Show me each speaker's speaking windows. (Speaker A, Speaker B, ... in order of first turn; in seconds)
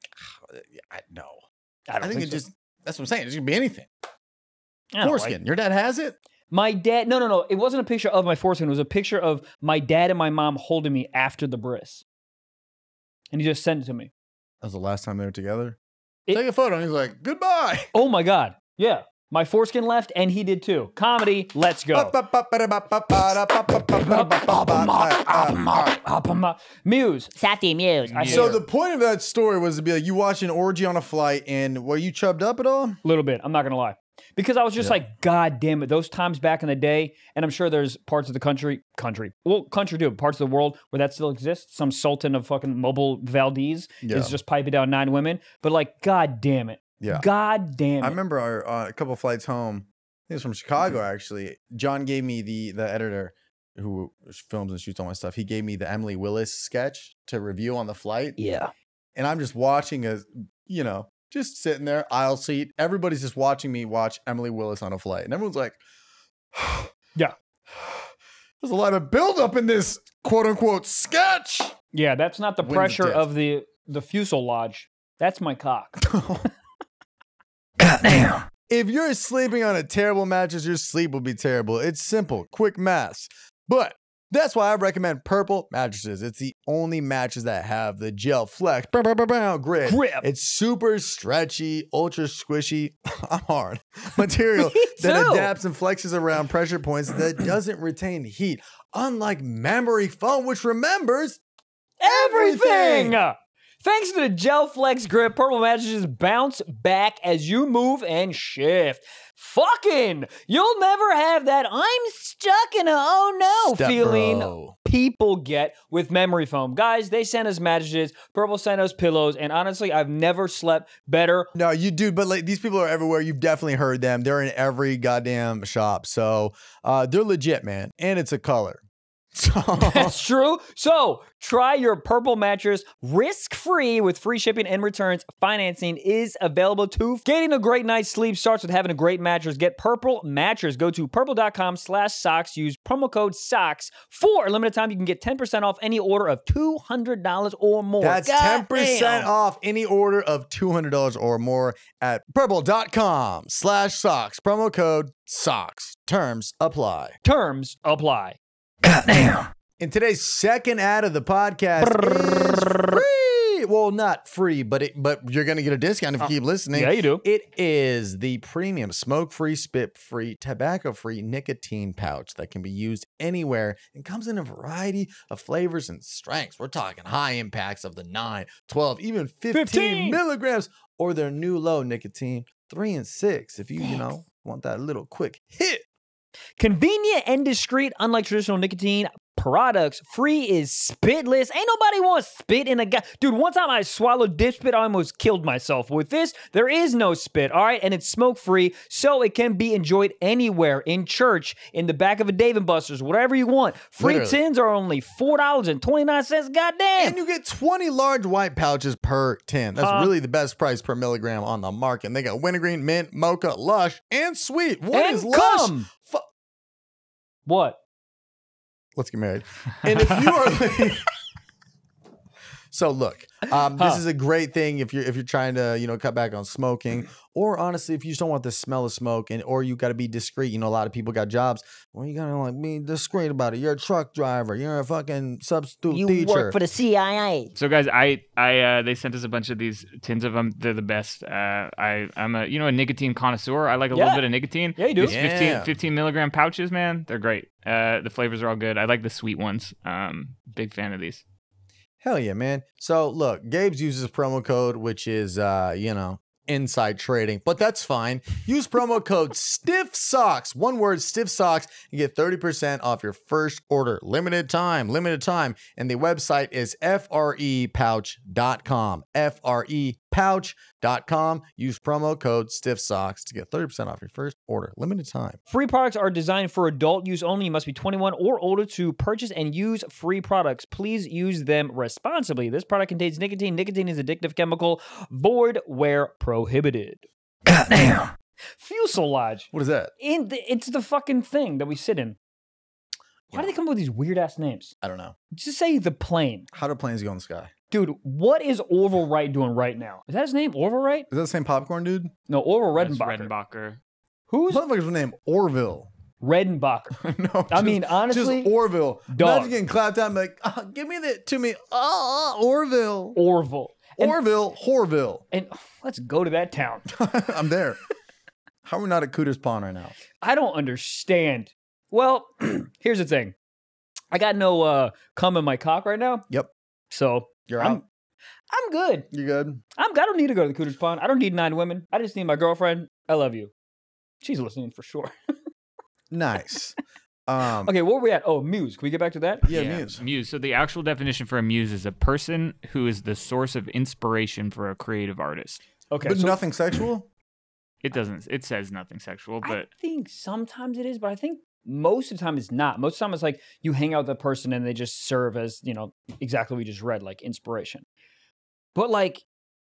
Speaker A: 0.2-1.4, 2.0-3.9, 5.0-6.2, 14.6-15.8, 16.3-17.9, 21.9-26.0, 28.2-33.0, 44.0-44.3, 47.0-47.2, 48.0-58.4, 59.1-65.8, 66.5-66.9, 67.8-68.0, 68.6-71.8, 72.6-73.3, 76.0-76.5, 77.8-101.4, 102.0-103.2, 113.6-114.7, 121.5-128.8, 129.3-130.2, 148.0-157.2, 158.9-185.8, 204.0-204.4, 207.0-216.2, 219.0-221.1, 222.7-236.6, 245.0-245.7, 252.0-275.4, 287.5-288.1, 289.5-289.9, 294.8-295.1, 296.5-297.5, 301.1-302.1, 304.5-305.9, 307.0-313.2, 313.9-315.2, 316.9-317.8, 318.6-319.9, 327.5-327.8, 329.1-329.6, 336.1-337.7, 339.5-340.0, 346.1-347.1
Speaker B: 1.9-2.4, 4.9-5.3, 6.5-12.0, 13.3-14.1, 17.9-22.1, 23.8-27.4, 28.1-28.6, 33.0-48.2, 58.4-58.7, 71.9-76.1, 89.8-90.3, 94.5-95.5, 102.0-121.5, 129.8-149.3, 157.2-158.4, 161.8-163.0, 166.2-167.2, 179.5-180.2, 186.6-207.2, 209.8-210.1, 214.9-215.9, 217.4-217.8, 223.8-224.0, 243.9-244.2, 244.8-245.2, 275.5-287.1, 288.5-289.5, 290.0-292.2, 293.3-294.7, 295.3-296.5, 297.7-301.1, 302.3-303.3, 304.3-304.6, 306.2-308.5, 309.1-309.5, 313.1-314.2, 315.3-316.8, 320.2-323.3, 324.1-326.2, 326.9-327.8, 328.5-329.1, 329.8-333.5, 334.2-335.1, 337.4-339.5, 345.9-346.4, 349.4-357.8, 358.7-359.2
Speaker C: 27.4-28.4, 235.9-237.5
Speaker D: 28.1-28.5, 237.5-251.2, 302.8-303.8, 339.5-345.6, 347.8-349.7